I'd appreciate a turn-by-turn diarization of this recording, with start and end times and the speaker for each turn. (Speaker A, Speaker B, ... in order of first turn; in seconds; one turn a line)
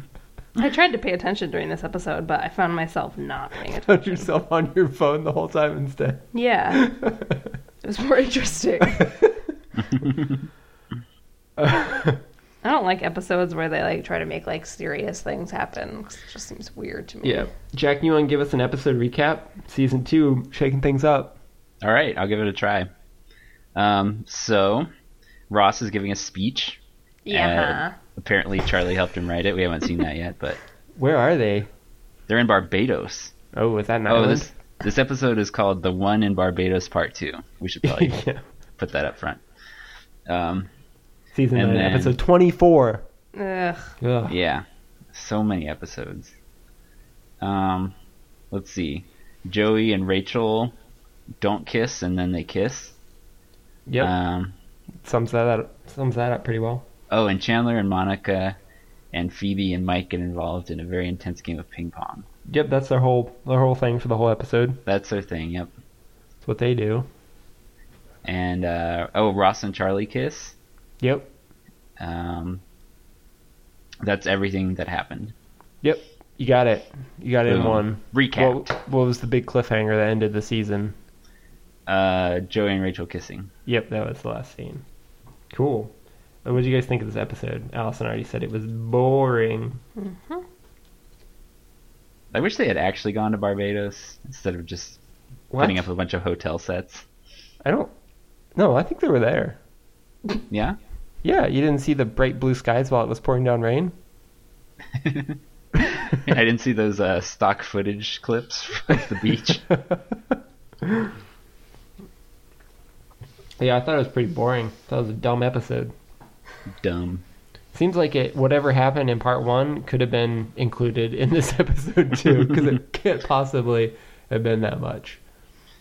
Speaker A: 0.6-4.2
Speaker B: 3.8-7.4
Speaker A: 6.3-6.9
Speaker A: 7.8-9.2
Speaker B: 9.0-9.3
Speaker B: 11.6-12.2
Speaker A: 12.6-17.5
Speaker B: 17.2-21.4
Speaker C: 21.8-22.9
Speaker C: 23.8-24.9
Speaker C: 25.5-26.8
Speaker A: 27.3-28.0
Speaker C: 27.3-30.6
Speaker B: 31.0-31.7
Speaker C: 32.3-33.3
Speaker B: 33.5-34.5
Speaker C: 34.1-38.2
Speaker B: 37.8-38.4
Speaker C: 38.8-39.4
Speaker C: 40.3-40.7
Speaker B: 41.3-43.0
Speaker C: 41.5-42.2
Speaker A: 43.3-44.0
Speaker B: 44.0-44.3
Speaker C: 44.3-46.3
Speaker C: 47.4-48.0
Speaker C: 48.5-50.8
Speaker C: 51.4-53.0
Speaker B: 53.9-54.1
Speaker C: 54.0-54.5
Speaker B: 55.0-56.9
Speaker C: 57.1-58.6
Speaker C: 59.1-62.3
Speaker B: 62.5-64.8
Speaker C: 64.9-65.7
Speaker B: 66.5-67.1
Speaker C: 68.2-70.5
Speaker B: 71.0-71.3
Speaker C: 72.0-72.6
Speaker C: 74.0-75.3
Speaker B: 75.8-81.0
Speaker C: 77.5-78.7
Speaker C: 81.9-83.5
Speaker B: 83.7-84.8
Speaker B: 85.5-85.9
Speaker B: 86.5-89.8
Speaker A: 90.0-90.4
Speaker C: 92.3-95.0
Speaker B: 95.5-95.9
Speaker C: 95.6-97.1
Speaker B: 97.6-97.9
Speaker B: 98.6-99.6
Speaker C: 100.5-100.8
Speaker B: 101.2-103.9
Speaker C: 104.9-109.7
Speaker B: 110.8-111.1
Speaker B: 113.6-115.9
Speaker C: 116.8-117.2
Speaker B: 117.7-125.2